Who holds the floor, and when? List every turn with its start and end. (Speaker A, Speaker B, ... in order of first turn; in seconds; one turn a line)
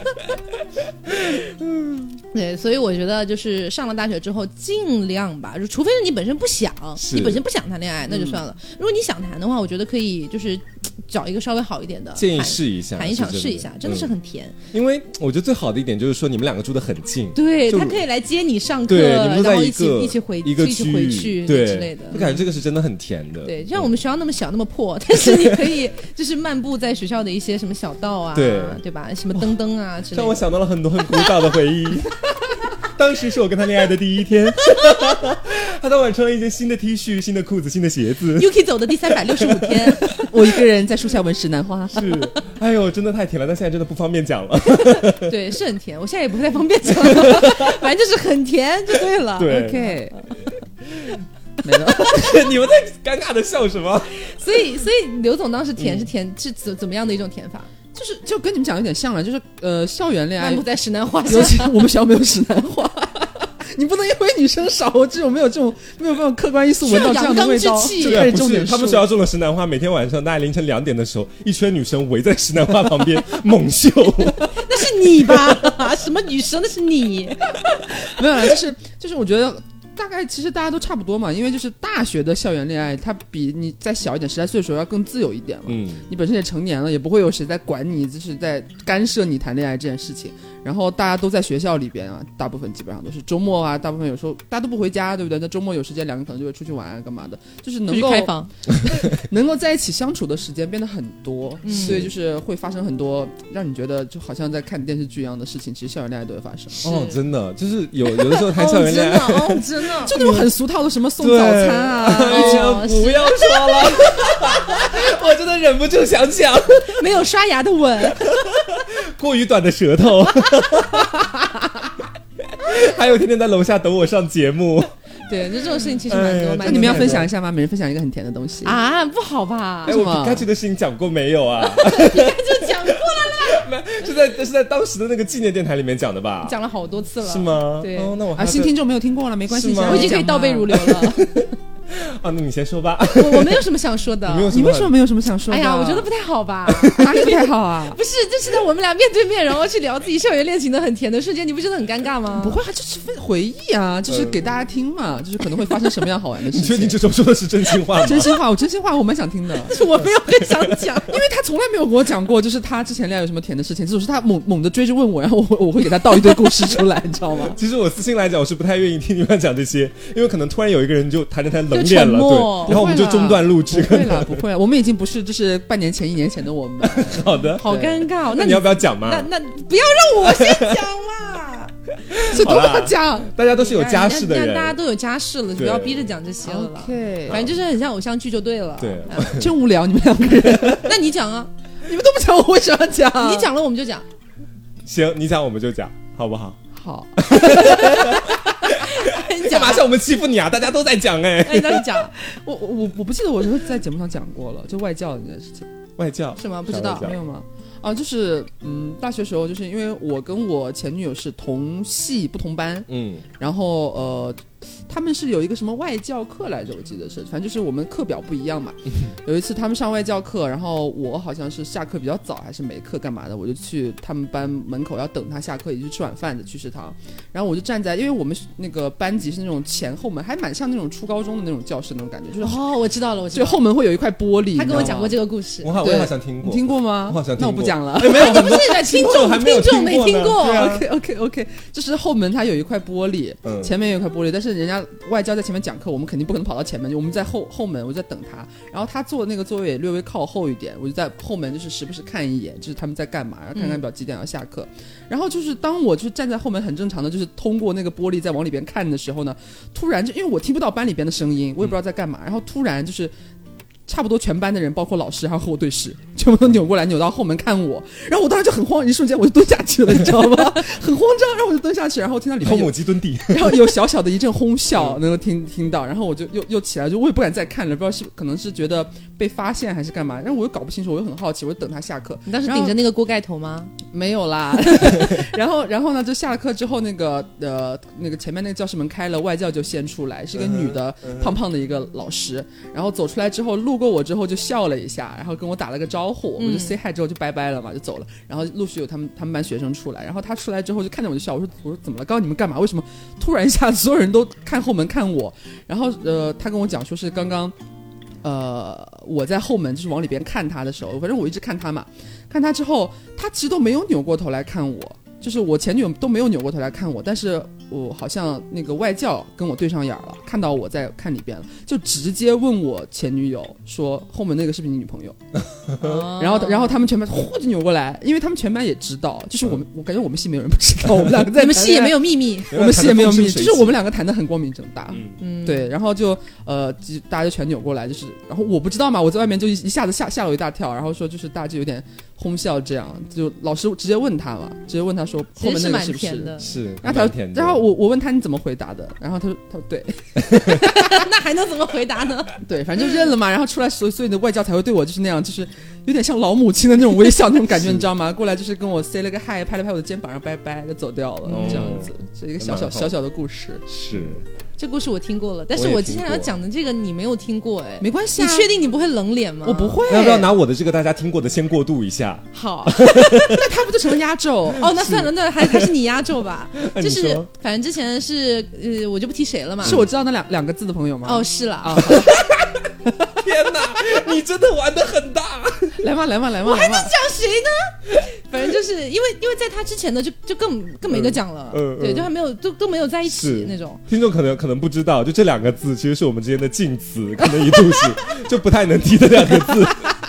Speaker A: 1.1-2.1
Speaker B: 2.3-14.6
Speaker A: 7.0-7.4
Speaker C: 8.1-8.4
Speaker A: 12.2-14.1
Speaker A: 14.7-18.0
Speaker B: 17.4-22.4
Speaker A: 18.9-23.9
Speaker B: 23.4-30.5
Speaker A: 25.2-25.7
Speaker A: 28.4-28.8
Speaker A: 30.1-32.3
Speaker A: 32.8-38.6
Speaker B: 38.4-40.3
Speaker A: 39.1-40.2
Speaker C: 40.2-42.3
Speaker A: 41.9-45.4
Speaker B: 44.8-49.9
Speaker A: 46.9-47.8
Speaker A: 49.4-49.8
Speaker C: 49.5-50.2
Speaker A: 50.9-51.2
Speaker C: 51.6-52.4
Speaker A: 51.9-54.1
Speaker B: 54.2-57.7
Speaker A: 55.8-56.1
Speaker C: 58.0-60.7
Speaker B: 60.4-61.8
Speaker C: 61.2-69.1
Speaker B: 66.8-68.3
Speaker A: 68.0-74.5
Speaker B: 74.5-77.6
Speaker C: 78.0-106.9
Speaker A: 85.7-86.1
Speaker B: 97.9-98.5
Speaker B: 101.6-102.1
Speaker A: 101.8-102.1
Speaker A: 106.8-110.5
Speaker B: 106.8-107.2
Speaker B: 108.1-110.1
Speaker C: 110.1-112.8
Speaker A: 111.2-117.0
Speaker B: 112.2-114.8
Speaker B: 116.9-118.4
Speaker A: 118.2-121.5
Speaker A: 122.5-124.9
Speaker B: 125.3-127.3
Speaker A: 126.1-127.3
Speaker C: 126.6-128.8
Speaker B: 128.6-130.0
Speaker C: 129.9-130.5
Speaker A: 129.9-136.6
Speaker B: 131.6-133.7
Speaker B: 136.4-138.2
Speaker A: 137.2-138.7
Speaker C: 138.4-141.1
Speaker A: 139.5-140.2
Speaker B: 139.8-141.3
Speaker A: 140.9-143.7
Speaker B: 143.1-144.5
Speaker A: 144.2-145.0
Speaker C: 144.5-146.1
Speaker B: 145.5-152.6
Speaker C: 146.8-148.0
Speaker C: 152.4-157.0
Speaker A: 154.1-154.4
Speaker A: 156.5-158.3
Speaker C: 158.0-159.8
Speaker B: 159.7-161.2
Speaker A: 160.0-160.9
Speaker C: 161.1-167.6
Speaker A: 167.5-174.4
Speaker B: 171.7-172.8
Speaker C: 172.7-177.9
Speaker A: 176.8-179.3
Speaker B: 177.6-181.7
Speaker A: 180.2-180.9
Speaker A: 182.1-184.8
Speaker C: 182.3-183.3
Speaker B: 183.6-189.4
Speaker A: 185.6-186.1
Speaker C: 186.4-187.4
Speaker A: 187.3-187.6
Speaker A: 188.8-189.5
Speaker C: 189.2-190.9
Speaker B: 190.7-191.5
Speaker C: 191.9-193.5
Speaker B: 193.2-194.1
Speaker A: 194.8-196.6
Speaker C: 196.7-197.9
Speaker A: 197.2-202.0
Speaker B: 197.3-199.9
Speaker B: 201.4-202.1
Speaker C: 202.2-205.7
Speaker A: 206.0-207.2
Speaker B: 206.4-207.1
Speaker C: 206.9-212.9
Speaker A: 212.9-213.3
Speaker C: 213.4-232.6
Speaker B: 232.4-233.6
Speaker C: 233.3-235.2
Speaker B: 234.6-235.8
Speaker A: 234.7-235.0
Speaker A: 235.6-240.9
Speaker C: 235.8-238.6
Speaker B: 238.0-240.8
Speaker C: 240.4-263.1
Speaker A: 243.4-243.8
Speaker B: 253.6-253.8
Speaker C: 263.9-282.8
Speaker A: 272.4-273.8
Speaker B: 282.3-283.8
Speaker C: 283.9-307.5
Speaker A: 290.4-291.4
Speaker B: 296.4-296.8
Speaker C: 308.2-325.2
Speaker C: 325.8-351.0
Speaker B: 325.8-326.9
Speaker B: 331.3-332.6
Speaker A: 332.5-333.8
Speaker A: 334.9-335.2
Speaker B: 335.2-335.7
Speaker B: 345.4-346.5
Speaker A: 346.4-347.7
Speaker B: 350.3-352.4
Speaker C: 352.4-363.8
Speaker B: 361.3-361.8
Speaker A: 361.3-363.0
Speaker A: 363.7-364.2
Speaker B: 364.6-369.9
Speaker A: 365.6-366.3
Speaker C: 367.8-368.5
Speaker C: 369.4-370.3
Speaker A: 369.9-373.6
Speaker B: 372.3-373.4
Speaker C: 373.2-374.7
Speaker B: 374.6-379.8
Speaker A: 374.6-375.7
Speaker A: 376.6-377.3
Speaker C: 379.6-382.3
Speaker B: 381.1-382.2
Speaker A: 381.9-382.4
Speaker A: 383.2-385.9
Speaker C: 385.8-386.9
Speaker B: 386.4-393.8
Speaker A: 390.9-392.1
Speaker A: 393.1-399.9